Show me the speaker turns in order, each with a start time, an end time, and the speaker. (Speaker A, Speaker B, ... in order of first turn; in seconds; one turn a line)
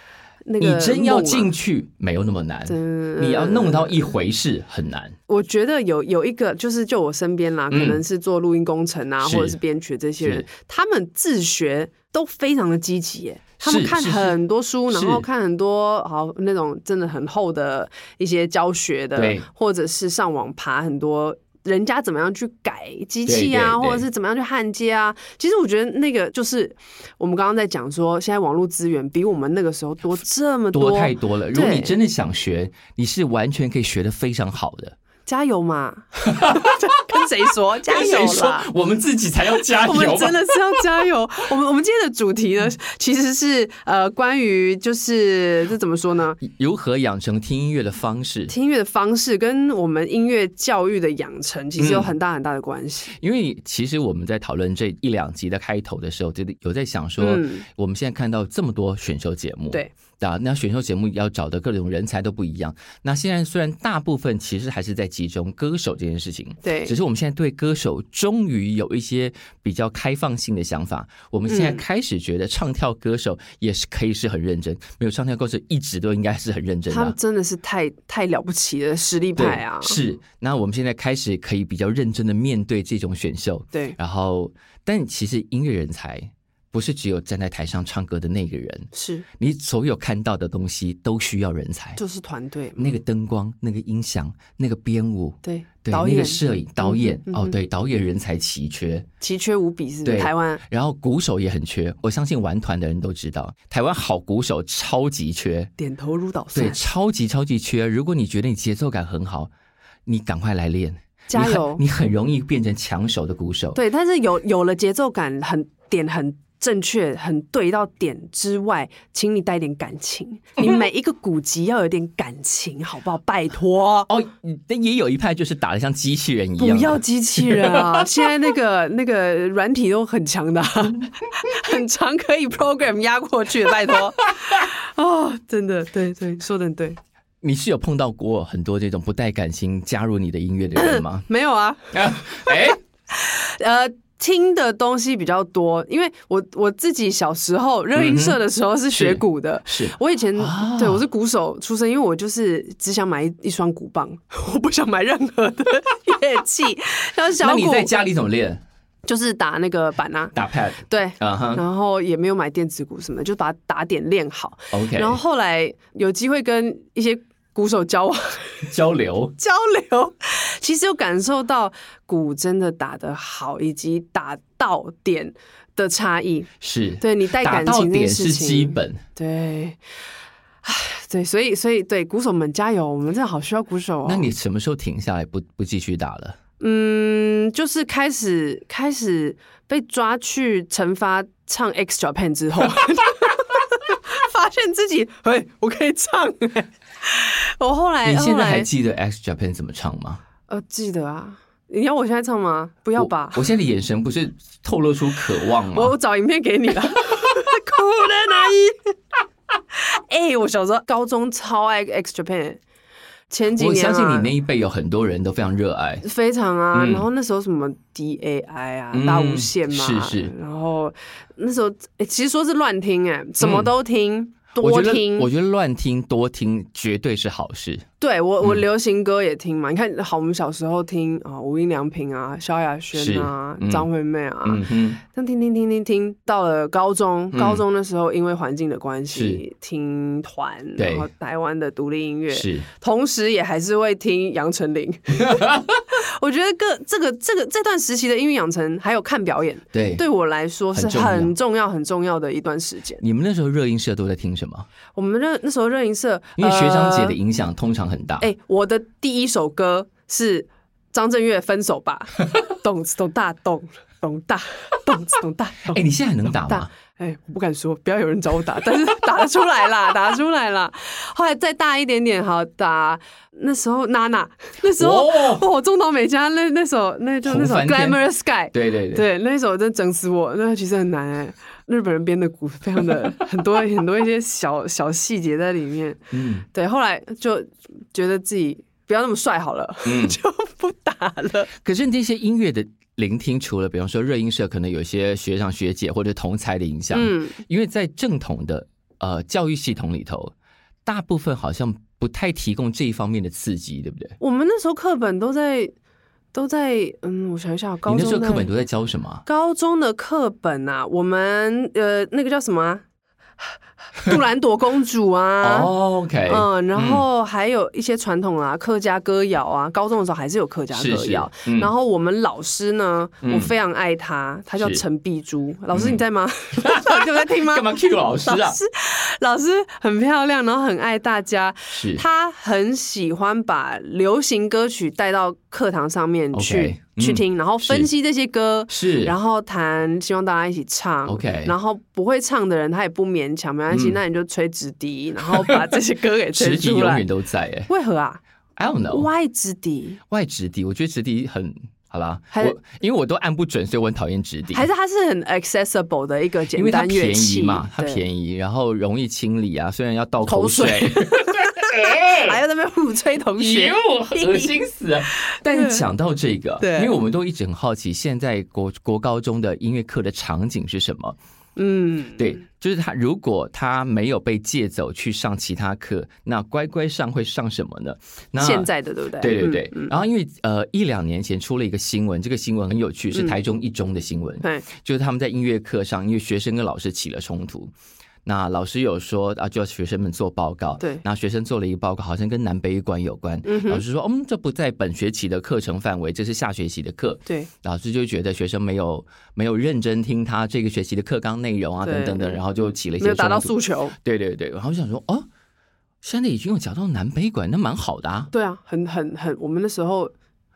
Speaker A: 0.5-1.5
Speaker B: 0.6-5.2
Speaker A: 2.7-4.0
Speaker A: 5.3-32.0
Speaker B: 7.7-8.0
Speaker B: 9.2-9.6
Speaker B: 10.2-10.5
Speaker B: 13.6-14.4
Speaker B: 14.9-15.2
Speaker B: 19.2-19.5
Speaker B: 23.3-24.1
Speaker B: 30.7-35.0
Speaker A: 35.3-38.7
Speaker B: 36.2-36.8
Speaker B: 37.9-40.4
Speaker A: 39.7-46.4
Speaker B: 46.4-48.5
Speaker A: 48.5-53.1
Speaker B: 51.8-52.1
Speaker B: 53.1-77.2
Speaker A: 57.2-57.7
Speaker A: 66.6-67.0
Speaker A: 71.5-71.8
Speaker A: 76.9-80.0
Speaker B: 79.4-92.0
Speaker A: 88.9-89.2
Speaker A: 92.0-92.9
Speaker B: 92.8-99.1
Speaker A: 95.4-97.5
Speaker A: 99.2-100.6
Speaker B: 100.0-105.7
Speaker A: 105.8-106.8
Speaker B: 106.5-109.5
Speaker B: 110.1-113.8
Speaker A: 111.3-111.8
Speaker A: 113.8-124.1
Speaker B: 124.1-128.1
Speaker A: 126.6-137.0
Speaker B: 137.4-141.3
Speaker A: 140.8-157.9
Speaker B: 141.9-142.8
Speaker B: 148.0-148.4
Speaker B: 148.9-151.0
Speaker B: 157.4-158.6
Speaker A: 159.1-160.3
Speaker B: 160.3-161.6
Speaker A: 160.9-168.7
Speaker B: 164.7-165.2
Speaker B: 168.7-169.3
Speaker A: 169.4-179.8
Speaker B: 176.6-179.0
Speaker A: 180.6-184.3
Speaker B: 184.1-186.4
Speaker A: 186.6-198.7
Speaker B: 198.0-200.2
Speaker A: 200.5-203.5
Speaker B: 203.0-205.9
Speaker A: 205.7-208.9
Speaker A: 209.7-212.6
Speaker A: 213.3-214.3
Speaker B: 213.5-216.0
Speaker A: 216.0-225.3
Speaker B: 216.7-217.1
Speaker B: 218.9-220.3
Speaker B: 223.4-223.7
Speaker B: 224.6-227.8
Speaker A: 228.0-253.0
Speaker B: 232.9-233.9
Speaker B: 234.4-235.0
Speaker B: 237.3-237.6
Speaker B: 239.1-239.4
Speaker B: 240.8-241.1
Speaker B: 242.3-242.7
Speaker B: 245.1-245.8
Speaker B: 249.7-250.0
Speaker B: 250.7-251.3
Speaker B: 253.0-254.7
Speaker A: 254.9-257.2
Speaker B: 256.4-258.3
Speaker A: 258.2-265.8
Speaker B: 265.7-266.7
Speaker A: 266.4-286.0
Speaker B: 274.8-275.4
Speaker B: 277.2-278.0
Speaker B: 278.5-279.1
Speaker B: 286.1-286.4
Speaker A: 286.5-291.5
Speaker B: 289.9-290.2
Speaker B: 291.6-300.3
Speaker A: 296.9-297.4
Speaker B: 300.9-304.2
Speaker A: 304.2-305.7
Speaker A: 306.3-308.5
Speaker B: 307.9-309.2
Speaker A: 309.3-312.8
Speaker A: 313.4-315.7
Speaker B: 315.4-317.0
Speaker A: 316.3-347.1
Speaker B: 320.7-321.7
Speaker B: 323.2-323.5
Speaker B: 325.7-326.0
Speaker B: 326.6-328.6
Speaker B: 331.7-332.0
Speaker B: 336.3-337.9
Speaker B: 338.7-339.1
Speaker B: 341.1-341.5
Speaker B: 343.7-344.0
Speaker B: 345.4-345.8
Speaker B: 346.3-347.7
Speaker A: 347.7-348.2
Speaker B: 348.6-349.1
Speaker A: 348.9-350.0
Speaker B: 350.1-354.7
Speaker A: 352.3-352.6
Speaker A: 354.5-358.0
Speaker B: 356.5-362.4
Speaker A: 360.3-365.8
Speaker B: 363.4-371.2
Speaker A: 366.6-366.9
Speaker A: 371.6-372.4
Speaker B: 372.2-387.7
Speaker A: 378.4-379.9
Speaker B: 388.2-405.3
Speaker A: 393.4-393.8
Speaker A: 401.8-402.4
Speaker A: 403.0-404.0
Speaker B: 406.0-408.3
Speaker A: 408.3-410.1